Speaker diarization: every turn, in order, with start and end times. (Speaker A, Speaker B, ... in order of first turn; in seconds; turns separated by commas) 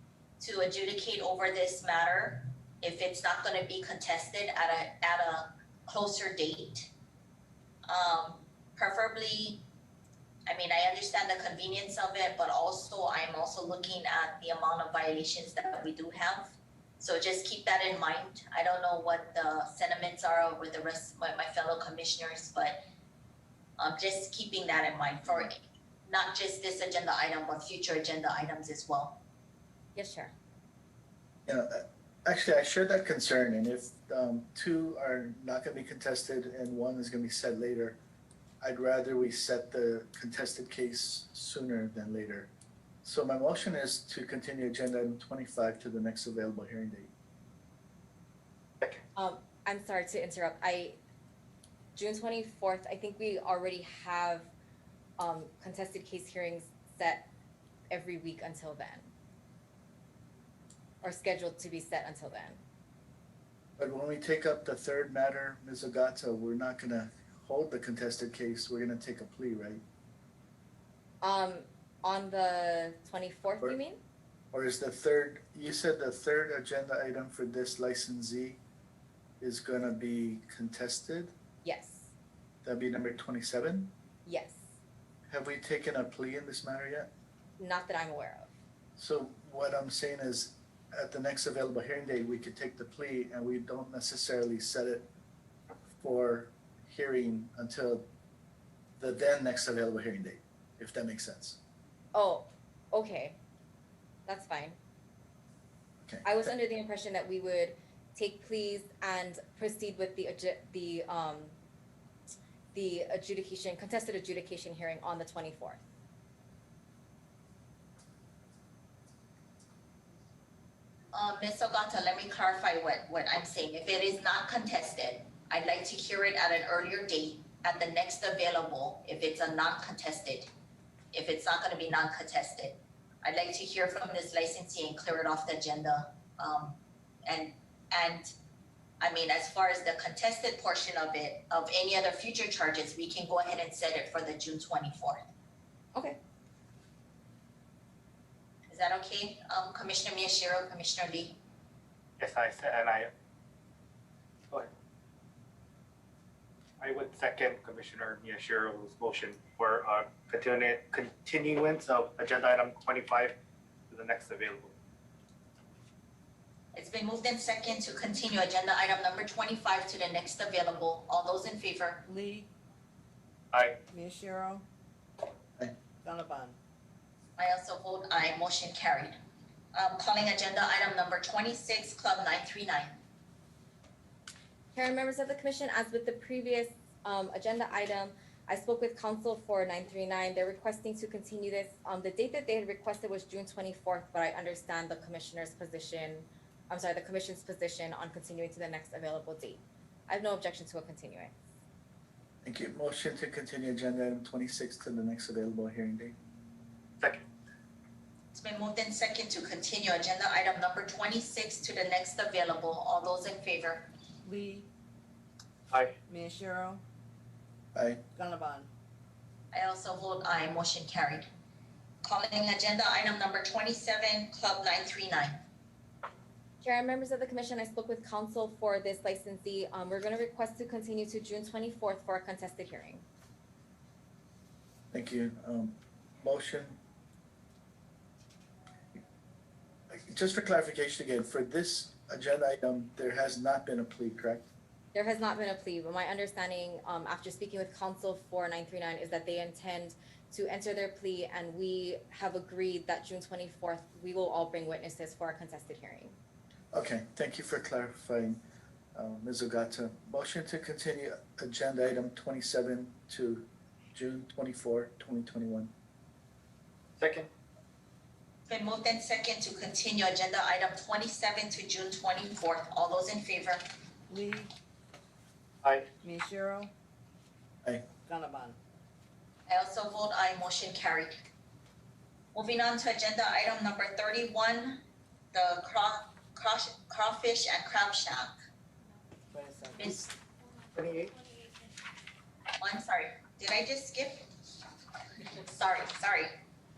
Speaker A: 0.4-6.9, Speaker A: 7.9-9.6, Speaker A: 10.5-22.8, Speaker A: 23.8-29.2, Speaker B: 29.9-30.3, Speaker C: 31.5-38.0, Speaker C: 38.6-42.5, Speaker C: 43.0-47.1, Speaker B: 49.1-51.0, Speaker B: 52.0-54.5, Speaker B: 55.2-57.3, Speaker B: 57.9-59.1, Speaker B: 61.0-62.6, Speaker C: 63.8-69.8, Speaker B: 71.2-74.0, Speaker C: 74.5-78.6, Speaker C: 79.4-81.3, Speaker B: 81.6-82.1, Speaker C: 82.6-83.9, Speaker B: 84.3-84.6, Speaker C: 85.3-87.1, Speaker B: 87.6-88.5, Speaker C: 89.0-95.1, Speaker C: 96.0-98.1, Speaker C: 99.0-101.6, Speaker B: 102.1-103.4, Speaker B: 104.3-104.8, Speaker C: 106.0-106.3, Speaker B: 106.2-111.5, Speaker B: 112.7-115.8, Speaker A: 121.1-130.5, Speaker A: 131.1-138.3, Speaker A: 139.0-145.3, Speaker A: 148.7-151.4, Speaker D: 152.2-153.1, Speaker D: 156.8-163.3, Speaker D: 163.9-164.7, Speaker A: 166.7-172.1, Speaker E: 172.1-172.5, Speaker E: 173.9-174.7, Speaker E: 176.0-176.6, Speaker A: 177.4-179.2, Speaker A: 179.7-183.0, Speaker B: 184.7-201.3, Speaker C: 202.4-206.2, Speaker A: 208.3-213.9, Speaker E: 214.2-214.7, Speaker E: 216.1-216.8, Speaker C: 217.8-218.0, Speaker E: 218.2-218.7, Speaker A: 219.5-221.3, Speaker A: 222.0-225.4, Speaker B: 226.6-233.0, Speaker C: 234.9-236.8, Speaker C: 239.9-244.4, Speaker B: 244.9-256.2, Speaker C: 256.7-258.4, Speaker C: 258.9-265.7, Speaker D: 267.0-267.3, Speaker A: 268.5-273.7, Speaker E: 274.1-274.5, Speaker E: 276.0-276.7, Speaker E: 278.1-278.6, Speaker A: 279.5-281.3, Speaker A: 282.4-288.3, Speaker E: 289.3-289.9, Speaker A: 289.8-290.1, Speaker D: 290.8-291.1, Speaker A: 292.6-294.3, Speaker A: 295.4-296.3